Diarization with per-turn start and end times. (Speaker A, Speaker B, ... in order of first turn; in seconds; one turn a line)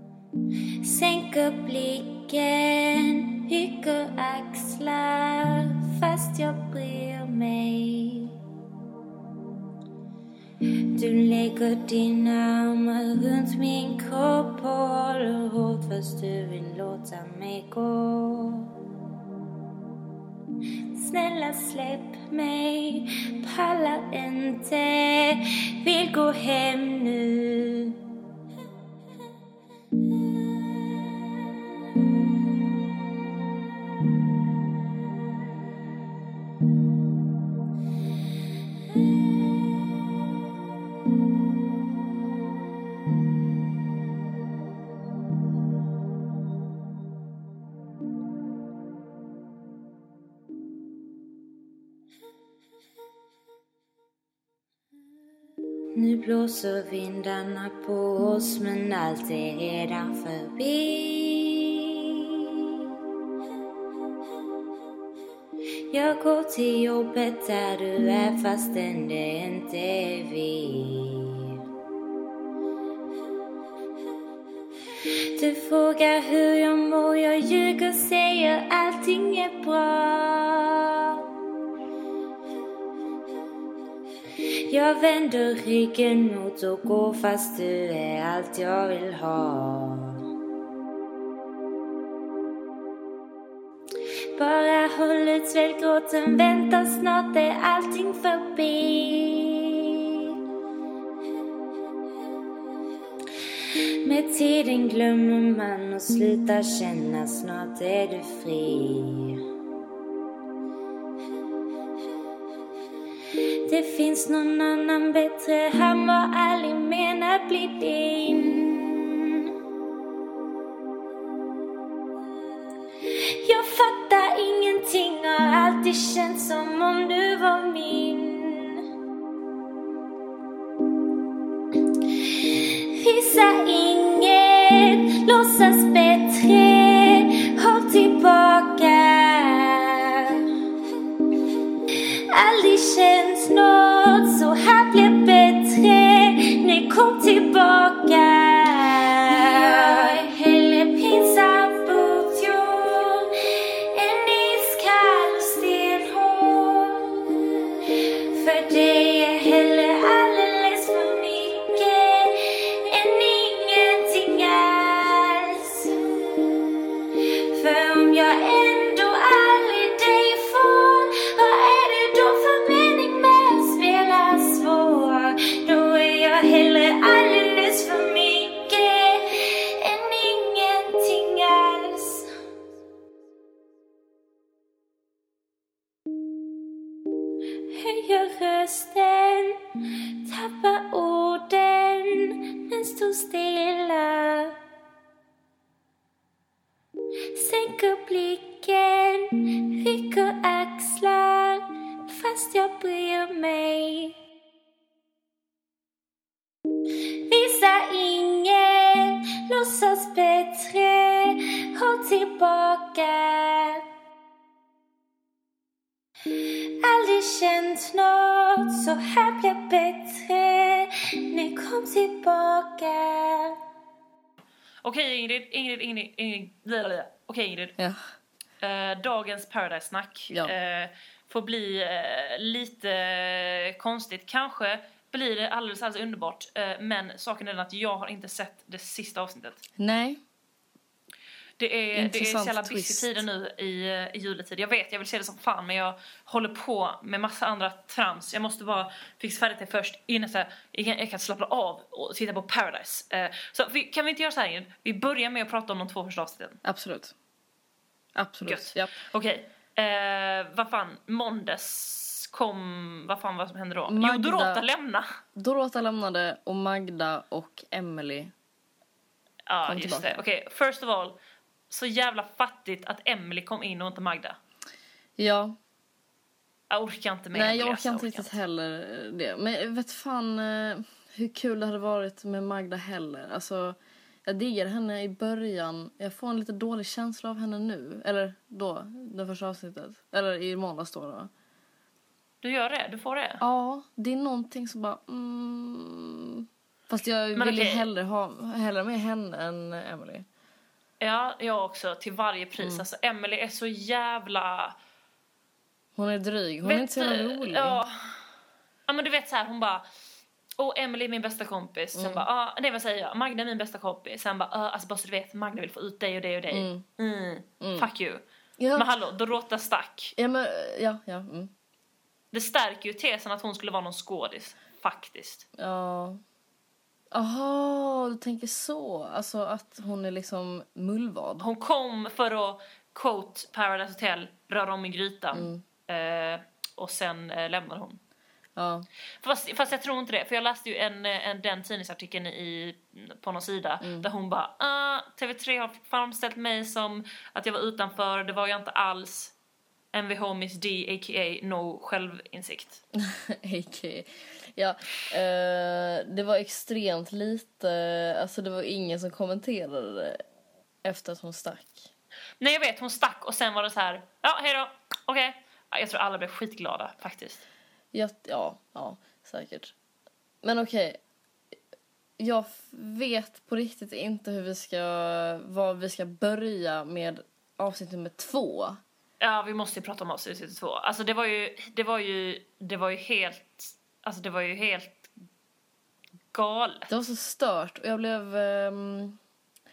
Speaker A: 0.8-8.3
Speaker A: 10.9-18.7
Speaker A: 20.9-28.0
Speaker A: 56.0-62.6
Speaker A: 65.9-71.6
Speaker A: 75.4-81.2
Speaker A: 84.7-90.2
Speaker A: 94.4-100.0
Speaker A: 104.0-109.4
Speaker A: 113.7-119.5
Speaker A: 123.4-128.8
Speaker A: 132.2-140.5
Speaker A: 141.9-153.3
Speaker A: 153.9-157.3
Speaker A: 157.9-166.0
Speaker A: 167.5-182.3
Speaker A: 187.7-189.6
Speaker A: 190.2-194.6
Speaker A: 197.3-204.2
Speaker A: 207.3-213.8
Speaker A: 216.3-223.6
Speaker B: 224.8-227.8
Speaker B: 228.6-239.6
Speaker C: 239.8-240.2
Speaker B: 241.6-256.6
Speaker C: 241.9-243.2
Speaker C: 256.6-257.1
Speaker C: 258.2-258.9
Speaker B: 258.5-265.1
Speaker C: 263.9-264.6
Speaker C: 265.4-268.3
Speaker B: 269.5-271.2
Speaker C: 269.7-270.2
Speaker B: 271.7-274.4
Speaker C: 275.2-275.6
Speaker B: 276.7-278.3
Speaker C: 277.3-291.3
Speaker B: 292.4-293.4
Speaker C: 293.4-300.3
Speaker B: 297.4-297.9
Speaker B: 301.0-304.8
Speaker C: 302.6-302.9
Speaker C: 306.0-307.8
Speaker B: 306.6-308.2
Speaker B: 308.9-309.8
Speaker B: 310.6-318.2
Speaker C: 311.9-312.3
Speaker C: 316.5-316.9
Speaker C: 317.6-317.9
Speaker C: 318.6-318.9
Speaker B: 318.8-320.1
Speaker C: 320.2-321.5
Speaker B: 322.3-325.5
Speaker C: 325.6-326.2
Speaker C: 327.1-331.5
Speaker B: 331.4-338.0
Speaker C: 335.3-335.6
Speaker C: 338.6-338.9
Speaker B: 339.2-349.3
Speaker C: 343.8-344.1
Speaker B: 349.9-352.8
Speaker C: 352.9-360.2
Speaker C: 360.8-361.9
Speaker B: 362.4-367.4
Speaker C: 367.9-369.7
Speaker C: 370.4-371.0
Speaker C: 372.2-378.8
Speaker B: 379.2-385.1
Speaker B: 386.3-386.9
Speaker C: 386.9-389.2